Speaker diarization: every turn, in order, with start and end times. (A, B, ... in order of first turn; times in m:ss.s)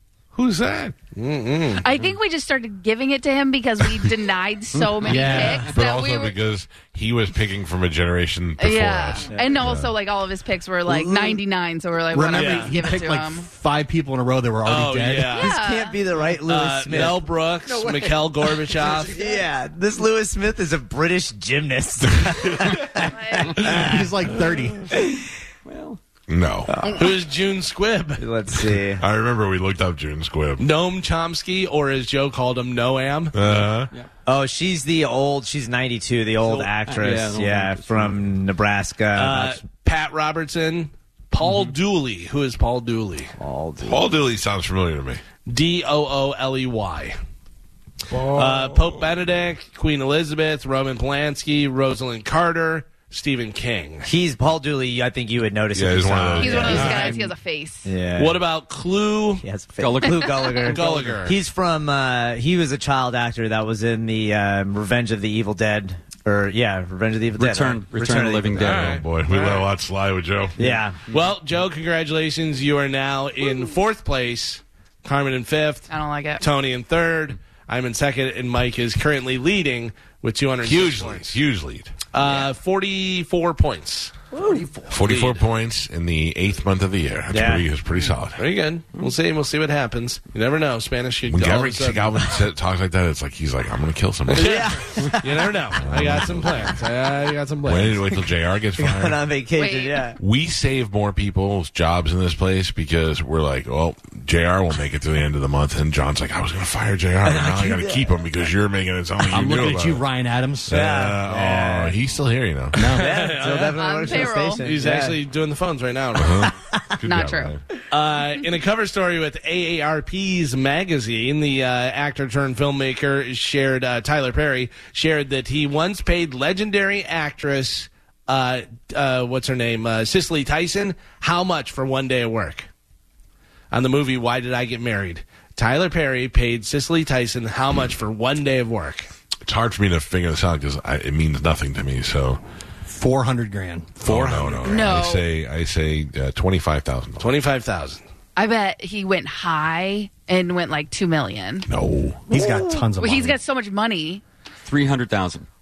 0:00.4-0:00.9 A
0:01.1-0:01.9 B
0:01.8-0:06.4 C
0:05.0-0:05.7 D
0:05.4-0:09.9 A
0:08.6-0:13.5 C
0:10.9-0:11.4 D
0:12.1-0:15.4 D
0:12.3-0:12.7 B
0:14.6-0:15.5 B
0:15.4-0:16.0 C
0:15.4-0:17.2 E
0:16.4-0:19.2 B
0:18.8-0:24.0 E
0:22.2-0:22.8 A
0:23.0-0:23.7 C
0:23.6-0:24.9 D
0:24.9-0:25.2 E
0:25.6-0:26.0 F
0:26.3-0:26.7 A
0:26.7-0:27.1 E
0:27.0-0:28.2 B
0:28.2-0:29.0 E
0:29.0-0:30.7 A
0:30.6-0:33.3 B
0:33.3-0:33.9 A
0:33.4-0:34.1 F
0:34.3-0:39.6 E
0:36.4-0:38.4 F
0:39.1-0:43.3 B
0:41.4-0:41.7 F
0:43.4-0:44.1 E
0:43.8-0:45.2 A
0:45.5-0:47.2 B
0:48.1-0:49.1 A
0:48.3-0:54.1 B
0:54.1-0:57.3 E
0:55.7-0:57.1 A
0:56.4-0:57.9 C
0:56.7-0:57.2 B
0:57.8-0:58.4 E
0:58.2-0:59.4 B
0:59.4-1:08.8 E
0:59.8-1:01.2 F
1:00.6-1:01.4 B
1:07.4-1:09.0 F
1:08.6-1:10.6 A
1:08.6-1:09.7 B
1:10.6-1:11.0 E
1:10.6-1:11.3 F
1:11.1-1:21.4 B
1:15.9-1:16.4 C
1:20.6-1:21.9 A
1:22.1-1:24.1 B
1:24.3-1:24.7 E
1:24.9-1:28.4 A
1:25.1-1:25.3 B
1:27.3-1:27.6 E
1:28.4-1:32.1 B
1:31.3-1:34.7 A
1:34.3-1:38.1 B
1:34.3-1:35.2 E
1:35.8-1:36.8 A
1:37.7-1:39.2 A
1:38.8-1:40.2 E
1:39.6-1:40.1 C
1:40.2-1:50.0 A
1:47.2-1:48.1 E
1:49.3-1:50.7 D
1:50.7-1:52.8 A
1:50.7-1:52.0 E
1:52.7-1:53.1 D
1:52.8-1:55.2 E
1:52.8-1:56.5 B
1:53.8-1:54.6 C
1:56.2-1:57.6 A
1:56.7-1:57.0 E
1:57.0-1:57.6 C
1:57.9-2:12.7 B
2:13.7-2:19.1 B
2:19.4-2:22.4 A
2:22.9-2:24.9 D
2:24.0-2:27.4 A
2:24.6-2:25.2 C
2:27.2-2:28.0 B
2:28.4-2:31.7 C
2:31.7-2:32.3 A
2:32.3-2:33.4 D
2:32.9-2:34.2 C
2:34.6-2:35.5 F